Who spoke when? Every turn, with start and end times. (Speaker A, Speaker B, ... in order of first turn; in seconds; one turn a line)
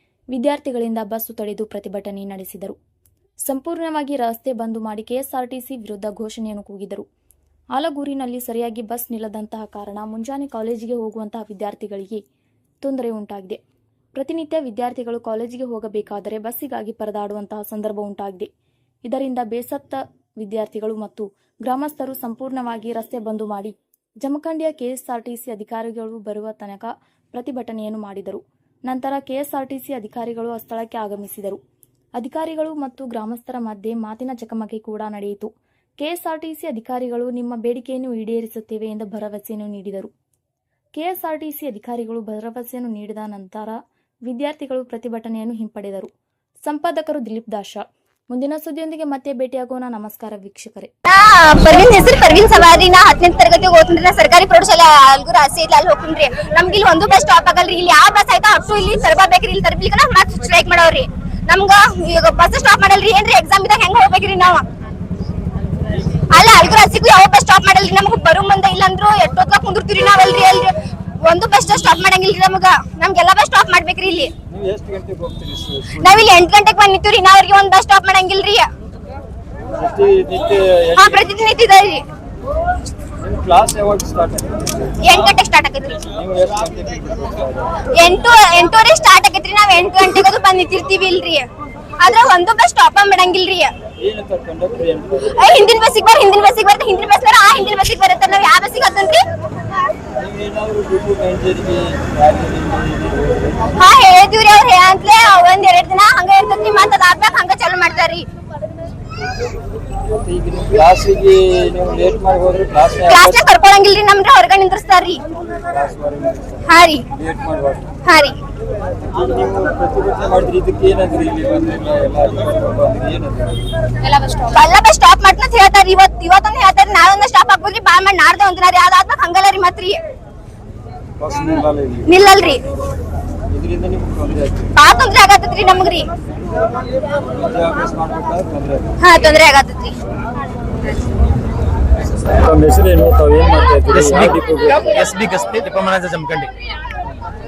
Speaker A: 0.3-2.8
Speaker A: 3.4-7.0
Speaker A: 7.8-12.2
Speaker A: 12.8-13.6
Speaker A: 14.2-18.5
Speaker A: 19.1-31.6
Speaker A: 32.2-40.1
Speaker A: 41.0-46.1
Speaker A: 46.6-50.9
Speaker B: 51.1-64.7
Speaker B: 66.3-70.7
Speaker B: 71.2-74.3
Speaker C: 74.5-76.3
Speaker B: 76.0-78.7
Speaker C: 79.7-81.3
Speaker B: 81.0-82.0
Speaker C: 83.2-85.0
Speaker B: 85.0-86.0
Speaker C: 86.0-87.8
Speaker B: 88.0-91.5
Speaker B: 92.0-93.7
Speaker C: 94.0-95.4
Speaker B: 95.4-99.2
Speaker C: 100.2-103.7
Speaker B: 103.8-108.2
Speaker C: 110.2-113.5
Speaker B: 113.1-115.2
Speaker C: 115.6-117.9
Speaker B: 116.7-117.0
Speaker B: 118.1-118.4
Speaker C: 119.1-123.9
Speaker B: 124.1-130.0
Speaker C: 131.2-132.1
Speaker B: 132.1-132.6
Speaker C: 133.5-134.7
Speaker B: 134.8-136.0
Speaker C: 137.3-138.9
Speaker B: 139.0-139.9
Speaker C: 142.1-145.0
Speaker D: 143.9-146.5